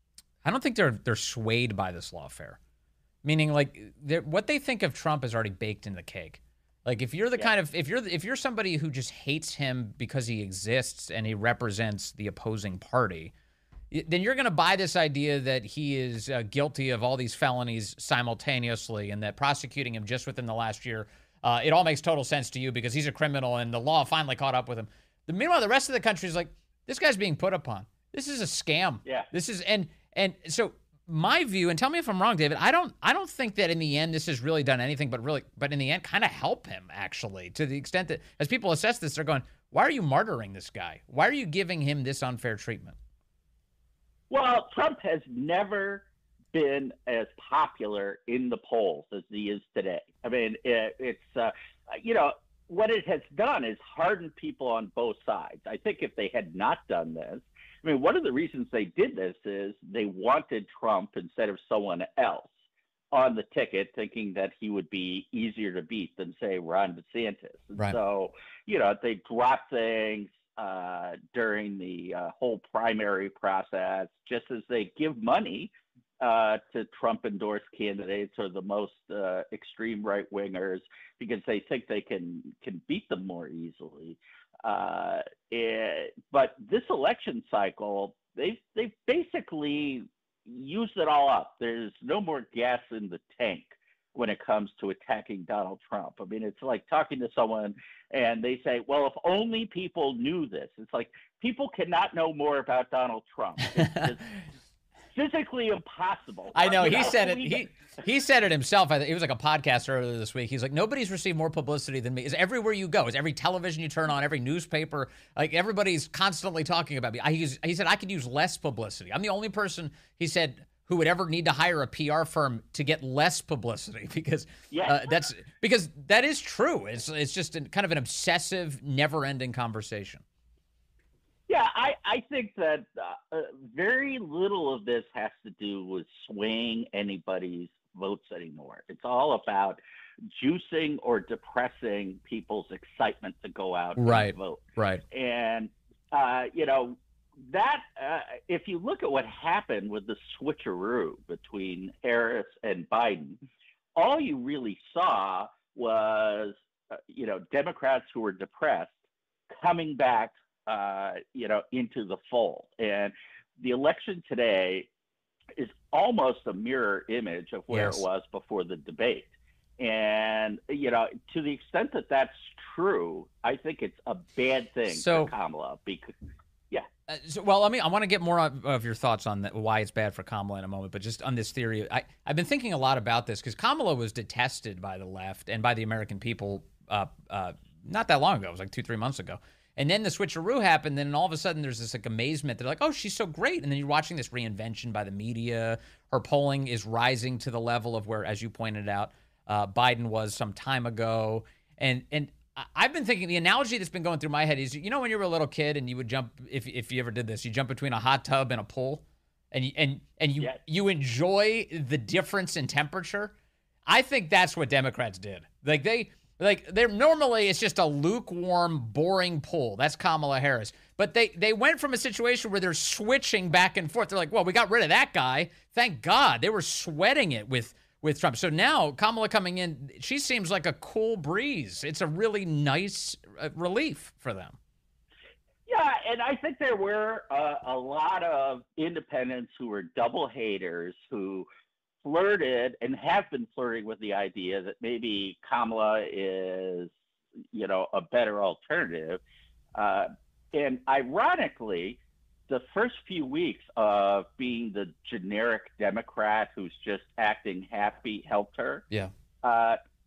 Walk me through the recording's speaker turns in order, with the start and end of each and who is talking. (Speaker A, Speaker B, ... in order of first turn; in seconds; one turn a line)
Speaker A: 0.4-2.6
Speaker A: 3.2-13.3
Speaker A: 13.9-43.0
Speaker B: 44.3-62.5
Speaker B: 63.1-104.2
Speaker A: 103.8-104.1
Speaker B: 105.1-107.7
Speaker A: 106.5-130.2
Speaker B: 124.7-125.1
Speaker B: 131.5-139.8
Speaker B: 140.3-153.4
Speaker A: 144.0-145.0
Speaker B: 153.9-156.6
Speaker B: 157.1-158.9
Speaker B: 159.5-164.9
Speaker B: 165.6-169.3
Speaker A: 167.7-168.0
Speaker B: 169.8-176.1
Speaker A: 174.9-175.3
Speaker A: 177.1-213.3
Speaker A: 213.9-234.6
Speaker B: 235.7-241.5
Speaker B: 242.0-246.9
Speaker B: 247.5-249.2
Speaker B: 249.7-258.8
Speaker B: 259.4-259.8